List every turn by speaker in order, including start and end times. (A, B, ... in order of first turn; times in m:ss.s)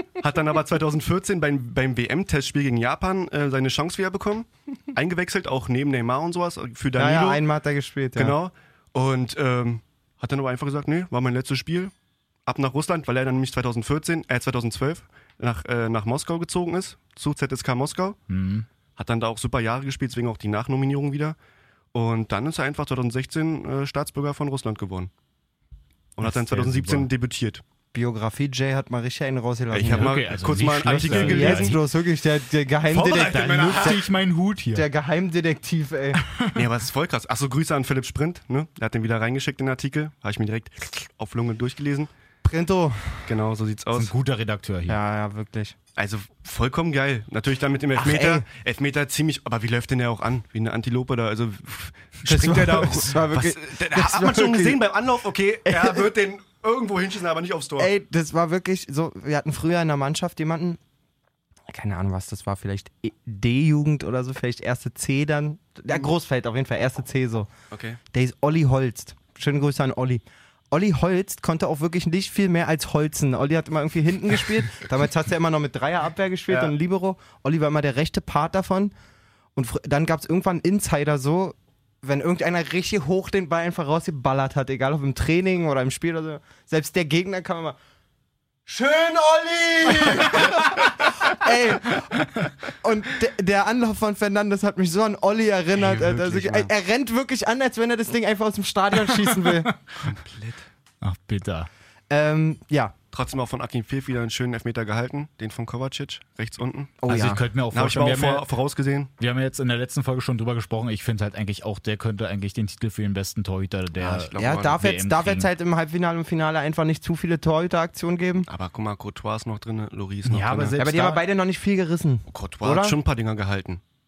0:00.2-0:07.4 A
0:07.0-0:08.4 B
0:08.2-0:11.9 A
0:12.5-0:18.2 A
0:18.3-0:18.7 C
0:19.0-0:21.4 A
0:21.9-0:25.1 A
0:26.2-0:27.6 A
0:26.2-0:27.1 C
0:27.9-0:30.3 B
0:29.7-0:31.8 A
0:29.9-0:31.8 C
0:30.8-0:34.0 B
0:32.9-0:34.0 A
0:33.0-0:34.9 C
0:34.7-0:36.2 B
0:36.3-0:36.6 C
0:36.6-0:42.1 A
0:42.4-0:43.3 B
0:43.3-0:44.1 A
0:43.9-0:45.0 C
0:44.9-0:45.8 B
0:46.0-0:57.9 A
0:48.0-0:48.4 B
0:52.2-0:54.8 B
0:55.7-0:56.1 B
0:57.8-1:00.8 B
1:01.7-1:07.5 B
1:07.7-1:08.0 A
1:08.1-1:18.9 B
1:16.5-1:16.7 A
1:19.6-1:27.8 B
1:28.7-1:39.7 B
1:35.8-1:36.7 A
1:39.1-1:39.7 C
1:40.0-1:40.7 A
1:41.0-1:41.7 C
1:42.1-1:42.9 B
1:43.1-1:47.0 A
1:47.0-1:47.4 B
1:47.1-1:48.5 C
1:47.7-1:49.1 A
1:49.2-1:55.5 C
1:54.0-1:54.8 A
1:54.4-1:58.5 B
1:58.5-2:00.8 A
2:00.3-2:01.2 C
2:00.8-2:03.0 B
2:02.3-2:03.8 A